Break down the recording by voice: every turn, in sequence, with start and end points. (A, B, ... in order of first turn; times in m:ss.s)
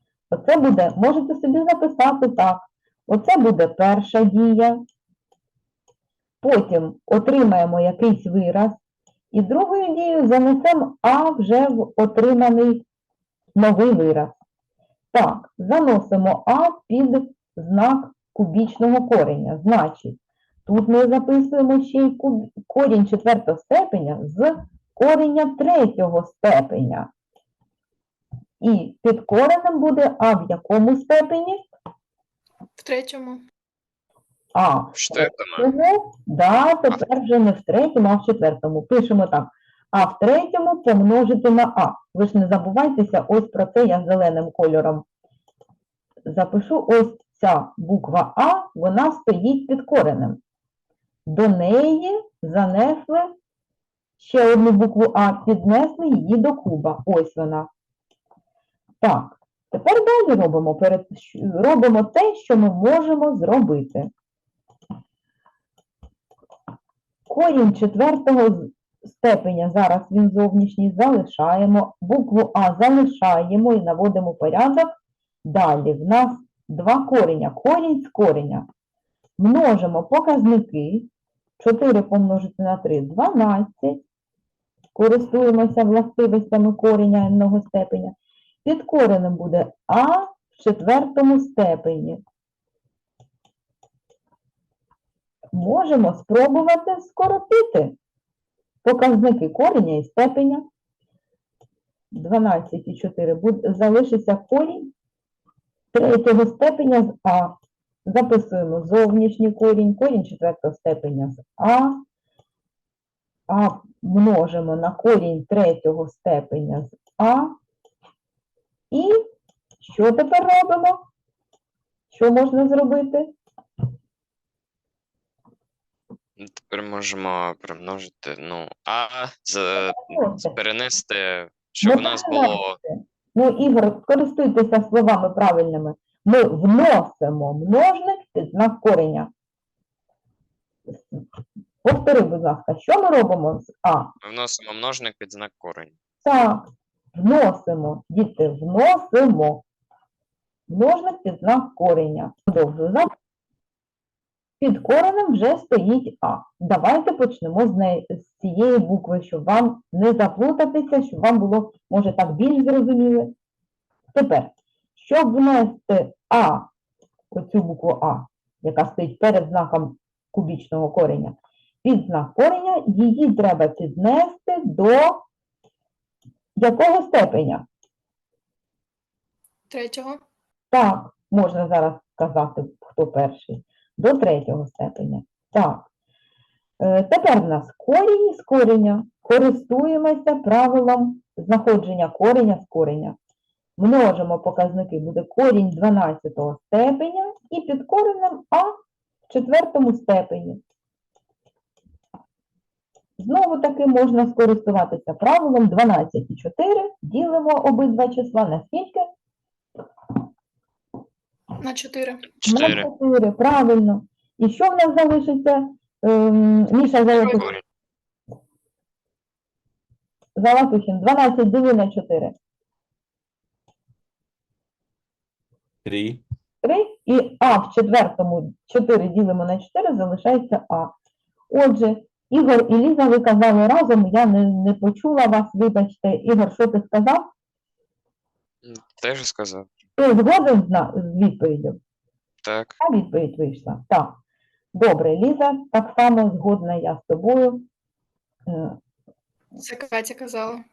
0:00.3-0:04.8 A
0:06.4-0:08.8 A
0:09.3-0:12.8 A
0:13.5-0:14.4 A
0:15.1-0:27.1 A
0:28.6-0:31.6 A
0:32.8-0:33.4 B
0:34.5-0:45.0 A
0:34.9-0:35.7 C
0:46.2-0:50.4 A
0:51.2-0:53.3 A
0:54.2-0:57.7 A
0:59.0-1:04.1 A
1:07.3-1:18.7 A
1:19.4-1:24.0 A
1:24.9-1:32.2 A
1:35.5-1:38.0 A
1:38.8-1:40.6 A
1:42.1-1:44.9 A
1:45.9-1:47.5 A
1:48.0-1:52.0 A
1:53.5-1:57.5 A
1:58.9-1:59.2 A
1:59.8-2:01.1 A
2:02.1-2:03.3 A
2:06.4-2:12.8 C
2:09.8-2:10.5 A
2:11.8-2:19.3 A
2:20.9-2:21.2 A
2:21.8-2:24.1 A
2:24.2-2:25.9 C
2:26.2-2:29.6 A
2:30.7-2:33.1 A
2:34.6-2:43.3 A
2:44.1-2:46.7 A
2:47.3-2:55.2 A
2:56.6-2:57.6 A
2:59.7-3:00.2 B
3:00.7-3:05.8 A
3:06.8-3:13.2 A
3:13.8-3:18.7 A
3:19.3-3:20.6 A
3:23.2-3:29.0 A
3:31.6-3:32.3 B
3:32.4-3:32.9 C
3:32.4-3:37.5 A
3:37.3-3:37.6 C
3:40.4-3:42.3 A
3:46.6-3:50.9 A
3:51.5-3:57.3 A
3:58.6-3:59.7 C
4:00.0-4:01.8 A
4:02.4-4:02.8 C
4:02.8-4:04.2 A
4:04.7-4:07.6 A
4:08.5-4:08.8 A
4:09.6-4:10.6 B